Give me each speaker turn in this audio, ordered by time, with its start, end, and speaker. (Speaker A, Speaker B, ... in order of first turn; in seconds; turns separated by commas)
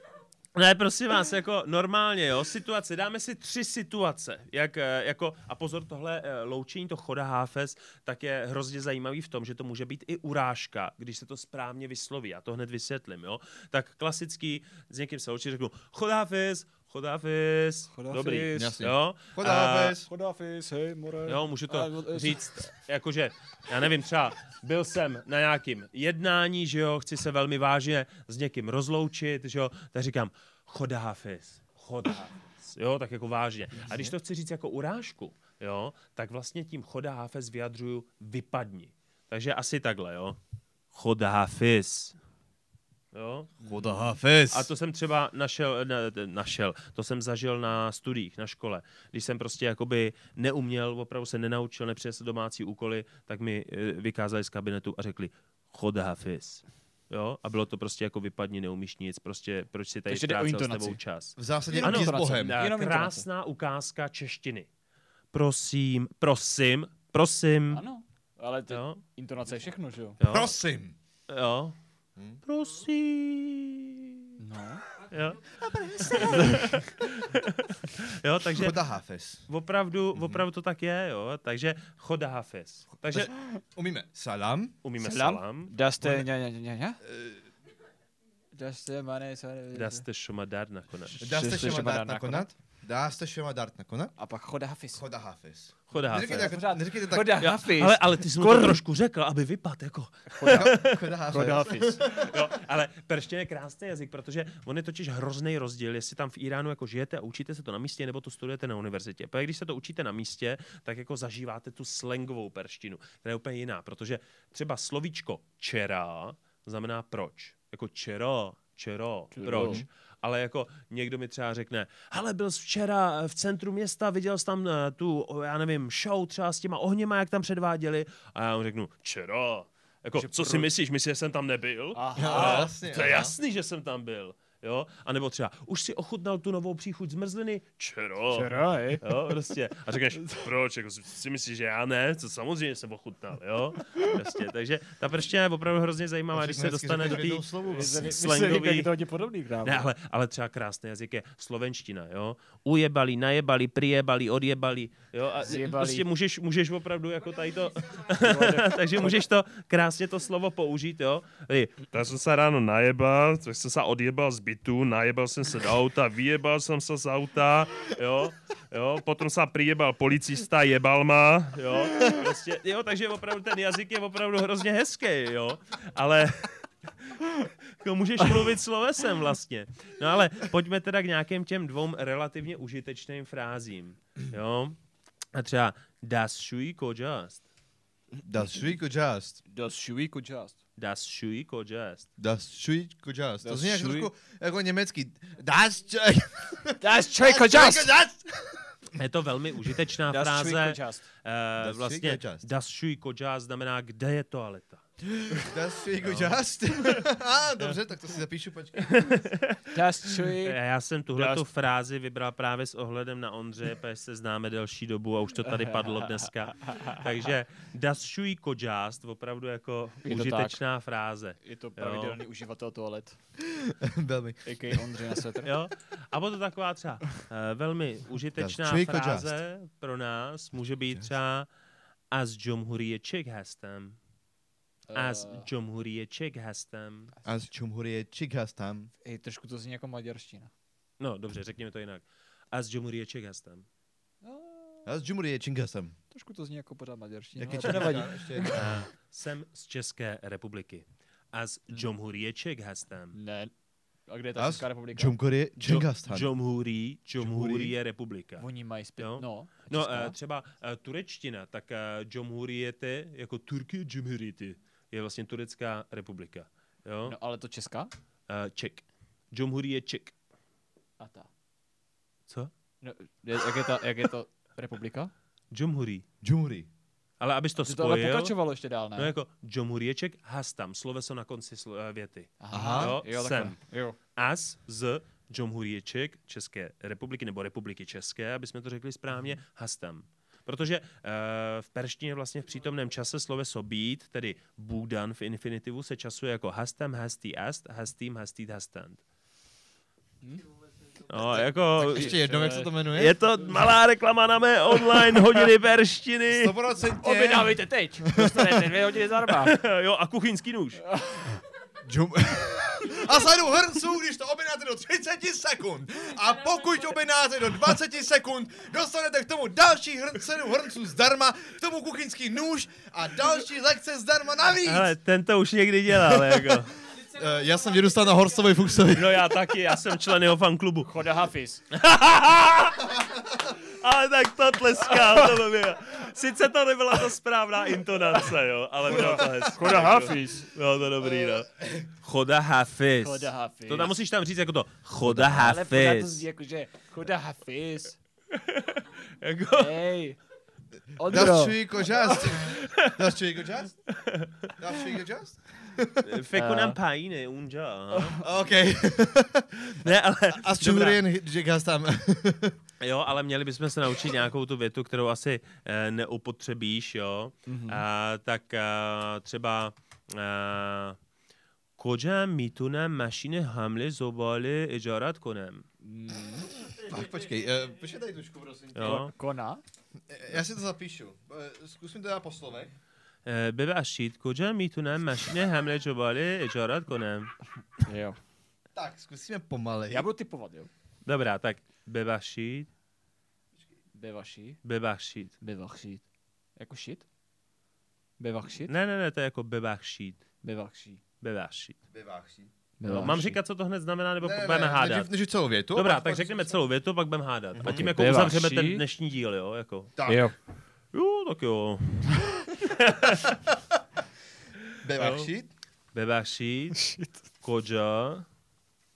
Speaker A: 0.5-20.0, Speaker B: 17.9-18.8, Speaker C: 18.5-20.1, Speaker B: 20.1-22.7, Speaker A: 21.3-40.4, Speaker C: 33.9-34.1, Speaker A: 40.9-42.1, Speaker A: 43.1-43.5, Speaker C: 43.6-44.7, Speaker A: 44.5-64.7, Speaker B: 60.1-61.0, Speaker C: 61.4-62.6, Speaker B: 61.7-63.2, Speaker A: 65.3-67.8, Speaker B: 67.7-70.2, Speaker A: 68.7-69.0, Speaker A: 70.2-70.5, Speaker C: 70.3-70.9, Speaker A: 71.3-71.7, Speaker A: 72.4-74.2, Speaker B: 74.4-74.8, Speaker A: 75.0-78.8, Speaker C: 75.5-76.7, Speaker B: 76.1-76.8, Speaker C: 78.5-79.5, Speaker A: 79.5-83.3, Speaker C: 80.2-80.4, Speaker C: 83.1-84.7, Speaker A: 84.8-86.2, Speaker B: 85.0-87.0, Speaker C: 87.0-87.5, Speaker B: 88.5-90.0, Speaker A: 89.7-91.3, Speaker B: 91.1-92.5, Speaker C: 91.2-94.2, Speaker B: 94.2-95.0, Speaker C: 94.9-97.4, Speaker A: 95.9-96.6, Speaker B: 96.0-98.8, Speaker A: 97.4-101.2, Speaker B: 100.3-102.1, Speaker C: 100.5-102.4, Speaker A: 102.1-148.9, Speaker B: 119.3-119.8, Speaker C: 119.5-119.8, Speaker B: 130.1-130.7, Speaker B: 131.9-132.7, Speaker C: 132.2-133.3, Speaker B: 138.3-139.1, Speaker C: 146.3-148.0, Speaker B: 147.7-149.9, Speaker A: 149.6-184.8, Speaker B: 155.4-156.1, Speaker B: 158.2-159.2, Speaker A: 185.3-187.4, Speaker C: 188.2-189.4, Speaker B: 189.4-190.6, Speaker A: 190.8-192.1, Speaker C: 192.2-198.8, Speaker B: 193.4-194.1, Speaker B: 196.8-197.9, Speaker A: 198.9-204.8, Speaker B: 200.1-201.1, Speaker C: 201.6-202.4, Speaker C: 205.2-209.1, Speaker A: 206.0-206.4, Speaker A: 208.8-209.7, Speaker B: 209.7-210.6, Speaker A: 210.4-222.2, Speaker B: 211.1-211.4, Speaker B: 215.5-217.0, Speaker B: 220.0-220.6, Speaker B: 221.4-223.2, Speaker C: 223.5-225.0, Speaker B: 224.4-225.5, Speaker A: 225.4-231.5, Speaker C: 228.4-229.4, Speaker A: 232.1-234.0, Speaker B: 234.9-235.4, Speaker A: 234.9-237.1, Speaker C: 237.2-238.9, Speaker B: 239.0-240.5, Speaker A: 241.0-243.7, Speaker B: 244.2-244.9, Speaker C: 244.8-245.9, Speaker B: 246.1-248.7, Speaker C: 247.3-248.8, Speaker A: 247.5-253.2, Speaker B: 253.1-253.5, Speaker B: 254.1-255.1, Speaker C: 254.4-256.3, Speaker A: 255.6-258.4, Speaker C: 257.2-257.7, Speaker B: 258.4-260.1, Speaker A: 259.0-267.1, Speaker B: 267.1-267.9, Speaker A: 268.3-270.1, Speaker B: 271.0-271.3, Speaker B: 272.8-275.1, Speaker A: 275.5-276.0, Speaker C: 276.2-276.7, Speaker A: 277.2-278.4, Speaker B: 277.6-279.1, Speaker A: 278.9-283.6, Speaker B: 282.4-284.0, Speaker C: 282.5-282.9, Speaker A: 284.1-299.0, Speaker A: 301.1-302.2, Speaker C: 301.7-303.1, Speaker B: 301.8-302.7, Speaker A: 302.9-306.6, Speaker C: 306.3-308.5, Speaker B: 307.0-309.5, Speaker A: 309.2-310.8, Speaker B: 310.9-311.4, Speaker C: 311.8-324.9, Speaker A: 324.6-326.7, Speaker C: 327.0-329.3, Speaker A: 328.9-330.9, Speaker B: 330.8-331.6, Speaker A: 331.7-346.2, Speaker C: 338.9-339.5, Speaker B: 339.5-340.5, Speaker C: 341.3-341.9, Speaker B: 343.0-343.9, Speaker B: 345.1-348.0, Speaker C: 345.1-345.4, Speaker A: 348.3-349.8, Speaker B: 349.5-350.2, Speaker B: 351.0-351.6, Speaker C: 351.1-353.8, Speaker A: 352.6-353.0, Speaker A: 353.9-354.5, Speaker C: 354.6-356.1, Speaker A: 356.0-358.3, Speaker B: 356.3-356.8, Speaker B: 357.9-358.2, Speaker C: 358.2-362.6, Speaker A: 359.6-361.0, Speaker A: 362.8-370.9, Speaker B: 367.4-367.8, Speaker A: 371.8-375.7, Speaker B: 375.8-376.5, Speaker C: 376.7-379.1, Speaker A: 378.7-379.1, Speaker B: 378.8-379.6, Speaker C: 380.1-382.7, Speaker A: 383.2-387.3, Speaker B: 387.8-388.2, Speaker C: 388.7-390.1, Speaker B: 389.9-390.7, Speaker A: 391.0-392.7, Speaker B: 393.9-394.6, Speaker A: 394.6-395.3, Speaker B: 395.4-397.0, Speaker B: 398.2-398.7, Speaker A: 398.7-400.2, Speaker B: 400.4-401.0, Speaker A: 401.2-401.8, Speaker C: 401.9-402.5, Speaker B: 402.8-403.4, Speaker A: 402.9-405.1, Speaker C: 404.2-406.5, Speaker A: 405.7-410.0, Speaker C: 407.5-407.9, Speaker B: 407.6-408.8, Speaker C: 410.0-410.2, Speaker B: 410.0-410.3, Speaker A: 410.9-413.4, Speaker C: 414.8-415.5, Speaker A: 414.9-415.3, Speaker A: 415.9-418.2, Speaker B: 416.8-417.1